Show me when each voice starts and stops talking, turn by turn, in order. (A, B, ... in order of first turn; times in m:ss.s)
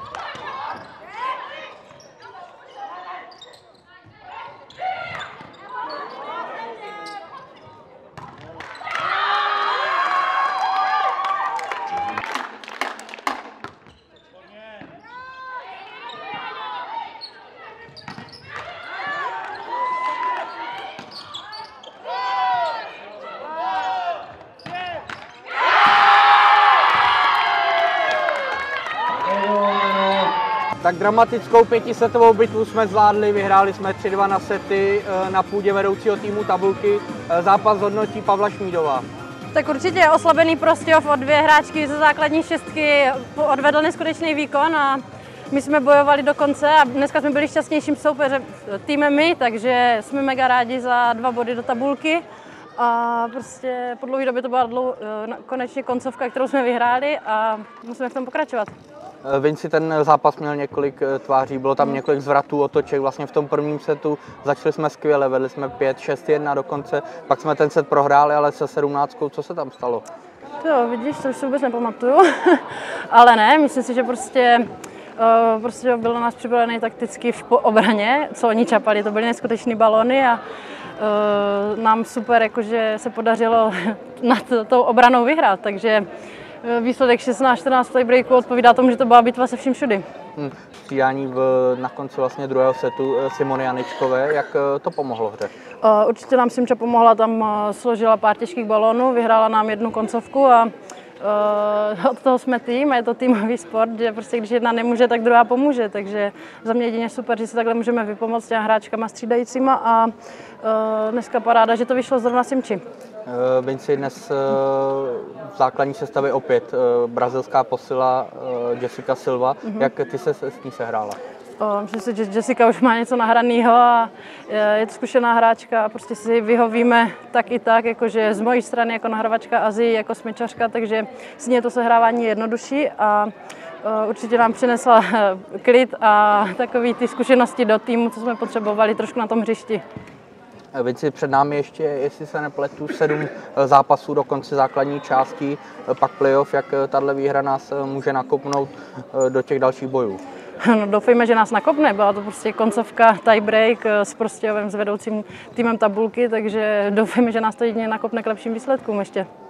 0:30.8-0:39.0 A
0:39.5-0:52.2 B
0:52.8-0:58.7 B
0:59.2-1:10.0 A
1:10.6-1:20.4 B
1:21.0-1:26.1 B
1:26.6-1:30.0 B
1:30.4-1:35.5 A
1:35.8-1:52.8 B
1:53.3-2:01.2 A
2:01.6-2:19.8 B
2:20.7-2:30.2 A
2:30.6-2:39.3 B